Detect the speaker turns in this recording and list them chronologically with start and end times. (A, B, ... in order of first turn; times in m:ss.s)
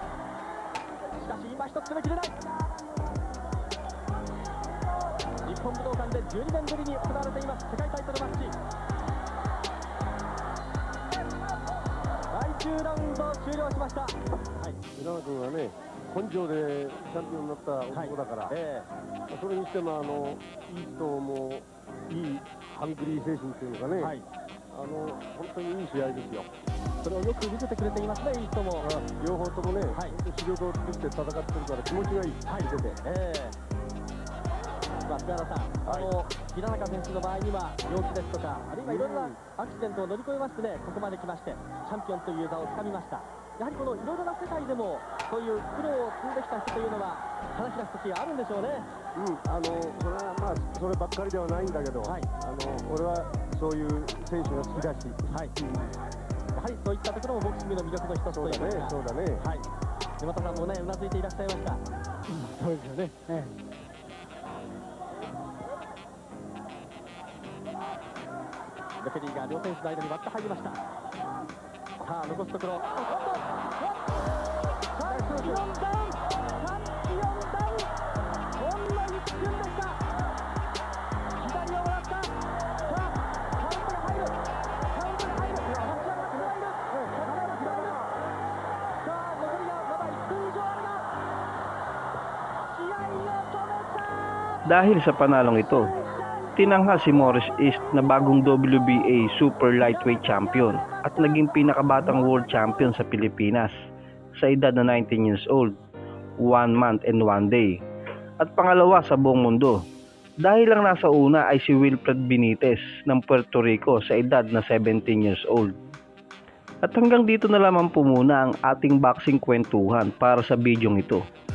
0:01.1-0:02.4 A
0:05.4-0:08.6 A
0:12.3-0:14.8 A
0:14.9-0:18.5 B
0:17.9-0:18.9 A
0:19.3-0:24.1 B
0:24.0-0:24.3 A
0:24.7-0:26.5 B
0:27.0-0:28.9 A
0:28.8-0:33.0 B
0:32.5-0:33.6 A
0:35.0-0:48.9 A
0:38.8-0:39.4 B
0:49.1-0:55.2 B
0:55.3-0:55.6 A
0:56.5-0:59.7 A
0:58.3-0:59.4 B
1:00.2-1:01.8 A
1:02.4-1:03.5 C
1:02.7-1:03.0 A
1:09.0-1:10.8 A
1:12.0-1:13.6 A
1:14.9-1:17.9 A
1:15.0-1:15.7 C
1:18.5-1:20.0 A
1:21.4-1:24.4 A
1:24.9-1:28.0 A
1:25.4-1:28.1 C
1:29.0-1:31.0 A
1:32.7-1:34.0 A
1:34.6-1:35.9 D
1:36.5-1:43.7 D
1:44.4-1:45.7 D
1:46.4-1:47.7 D
1:48.4-1:49.8 D
1:50.4-1:55.8 D
1:56.8-2:01.2 D